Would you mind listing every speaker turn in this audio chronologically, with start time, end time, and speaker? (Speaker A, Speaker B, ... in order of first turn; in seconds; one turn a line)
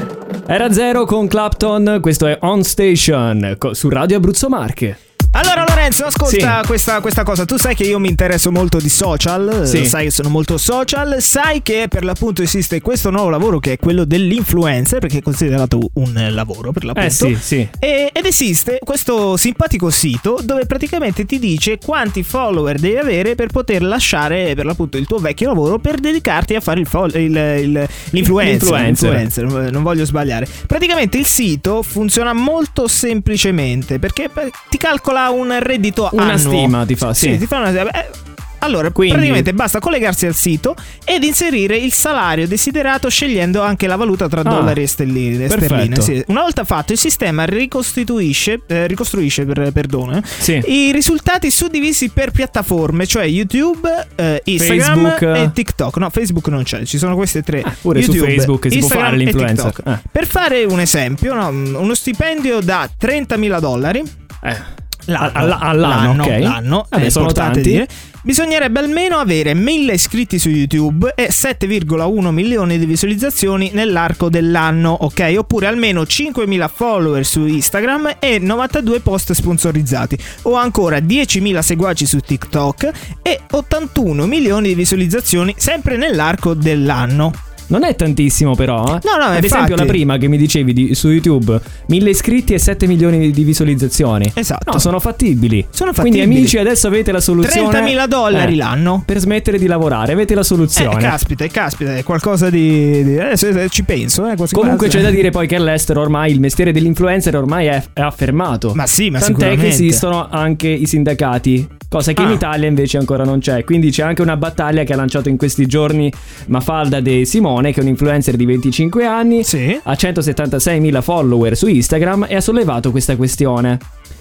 Speaker A: 0.5-5.0
Speaker B: 5.3-64.1
Speaker A: 6.2-6.6
Speaker A: 9.7-9.9
Speaker A: 16.9-17.7
Speaker A: 28.2-29.2
Speaker A: 36.1-37.4
Speaker A: 38.9-39.5
Speaker A: 44.4-44.8
Speaker A: 45.5-46.1
Speaker A: 50.4-50.6
Speaker A: 54.6-55.5
Speaker A: 57.6-60.0
Speaker B: 65.1-87.4
Speaker A: 65.2-67.8
Speaker A: 87.7-98.5
Speaker B: 89.0-90.0
Speaker B: 94.3-94.9
Speaker B: 95.7-96.6
Speaker B: 97.4-99.0
Speaker A: 99.0-101.2
Speaker B: 100.8-105.2
Speaker A: 104.5-123.8
Speaker B: 108.7-110.0
Speaker B: 112.2-112.4
Speaker B: 119.4-119.8